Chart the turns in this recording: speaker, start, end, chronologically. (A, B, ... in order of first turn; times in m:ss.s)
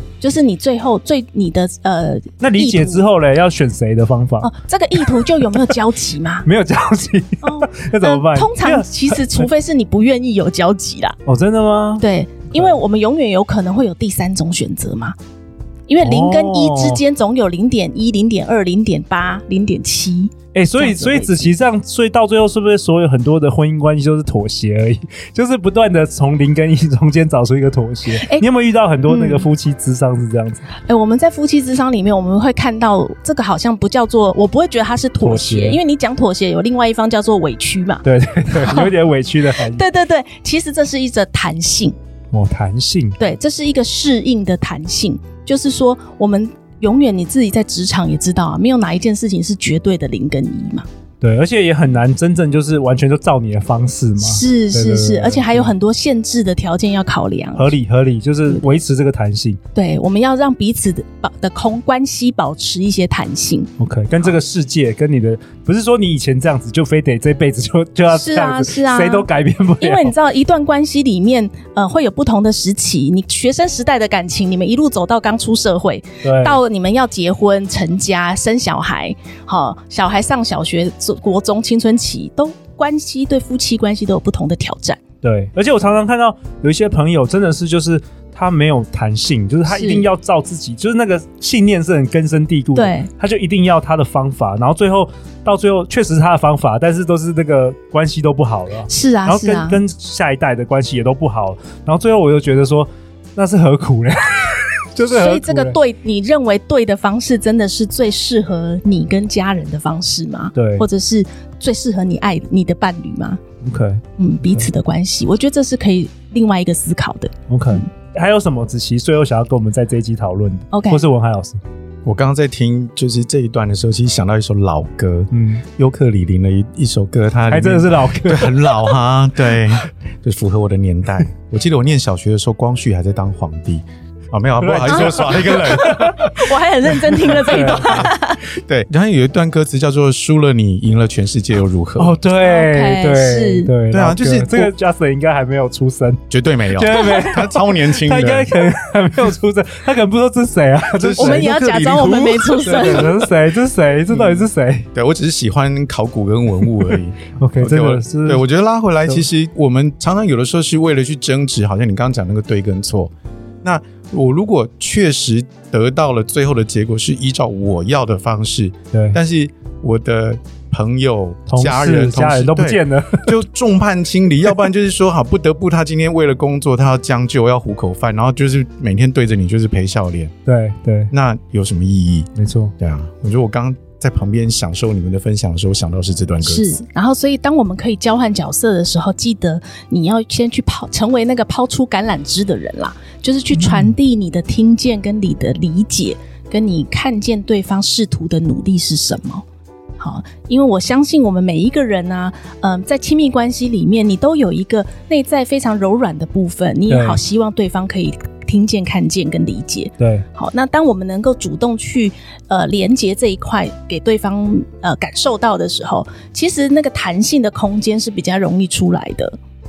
0:00.2-0:03.0 A
0:02.4-0:05.7 B
0:04.4-0:06.5 A
0:06.4-0:09.5 B
0:07.4-0:11.2 A
0:11.2-0:12.0 B
0:12.0-0:15.1 A
0:15.9-0:21.5 A
0:16.0-0:17.0 B
0:20.5-0:30.6 B
0:28.1-0:28.5 A
0:29.0-0:29.5 A
0:30.8-0:38.0 A
0:35.2-0:35.8 B
0:38.0-0:39.8 B
0:38.5-0:41.9 A
0:42.3-0:43.2 B
0:43.2-0:50.8 A
0:51.2-0:55.7 B
0:54.2-0:57.7 A
0:57.6-0:59.6 B
0:59.7-1:03.7 A
1:03.8-1:10.1 B
1:08.1-1:25.0 A
1:16.2-1:16.6 B
1:25.2-1:45.8 B
1:29.6-1:30.1 A
1:32.7-1:33.1 A
1:38.9-1:39.8 A
1:45.1-1:53.4 A
1:50.5-1:50.8 B
1:53.6-1:54.6 B
1:54.2-1:57.8 A
1:57.5-2:01.6 B
2:00.7-2:01.0 A
2:02.0-2:16.1 C
2:05.3-2:05.6 B
2:07.5-2:08.9 B
2:14.6-2:18.1 B
2:14.8-2:18.5 A
2:17.8-2:22.2 C
2:22.0-2:26.2 B
2:22.4-2:23.7 A
2:23.9-2:24.7 C
2:26.3-2:28.5 C
2:26.7-2:31.5 B
2:26.9-2:27.3 A
2:31.0-2:33.1 C
2:31.2-2:33.2 A
2:32.6-2:34.9 B
2:34.1-2:43.1 C
2:37.4-2:38.4 B
2:43.6-3:00.3 C
2:48.9-2:49.2 B
2:51.5-2:53.3 B
3:00.4-3:01.1 B
3:01.1-3:06.8 C
3:02.4-3:02.7 B
3:06.4-3:19.4 A
3:13.6-3:13.9 B
3:20.0-3:39.4 A
3:26.9-3:27.2 B
3:30.0-3:30.2 B